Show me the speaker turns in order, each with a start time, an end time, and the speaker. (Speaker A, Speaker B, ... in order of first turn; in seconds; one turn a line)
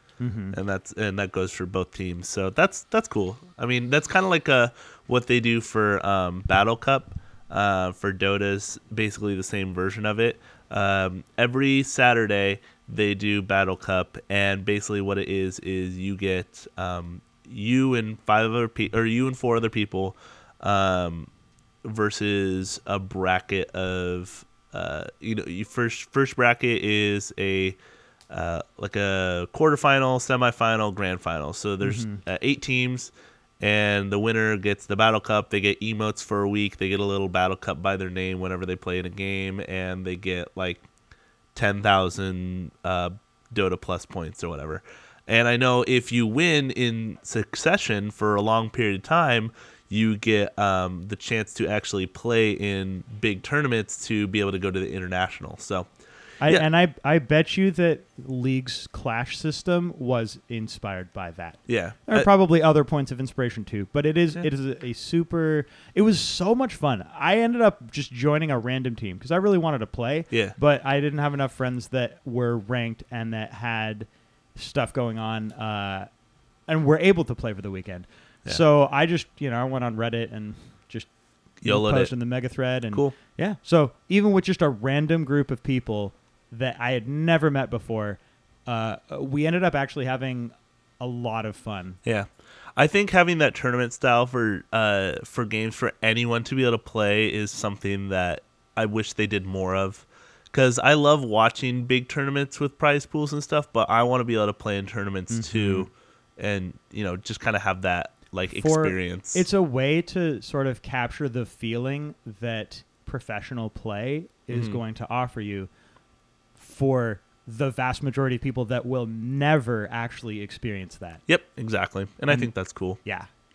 Speaker A: 0.2-0.6
Speaker B: 0.5-21.3
Speaker B: 21.8-27.8
Speaker B: 28.3-40.8
Speaker A: 31.8-32.2
Speaker B: 41.5-55.9
Speaker A: 56.4-76.1
Speaker B: 61.7-62.3
Speaker B: 70.3-70.5
Speaker A: 76.7-92.0
Speaker B: 81.6-83.2
Speaker B: 92.0-109.5
Speaker A: 105.3-105.9
Speaker A: 108.5-115.7
Speaker B: 114.5-114.8
Speaker A: 116.6-121.2
Speaker B: 121.3-123.0
Speaker A: 122.3-122.5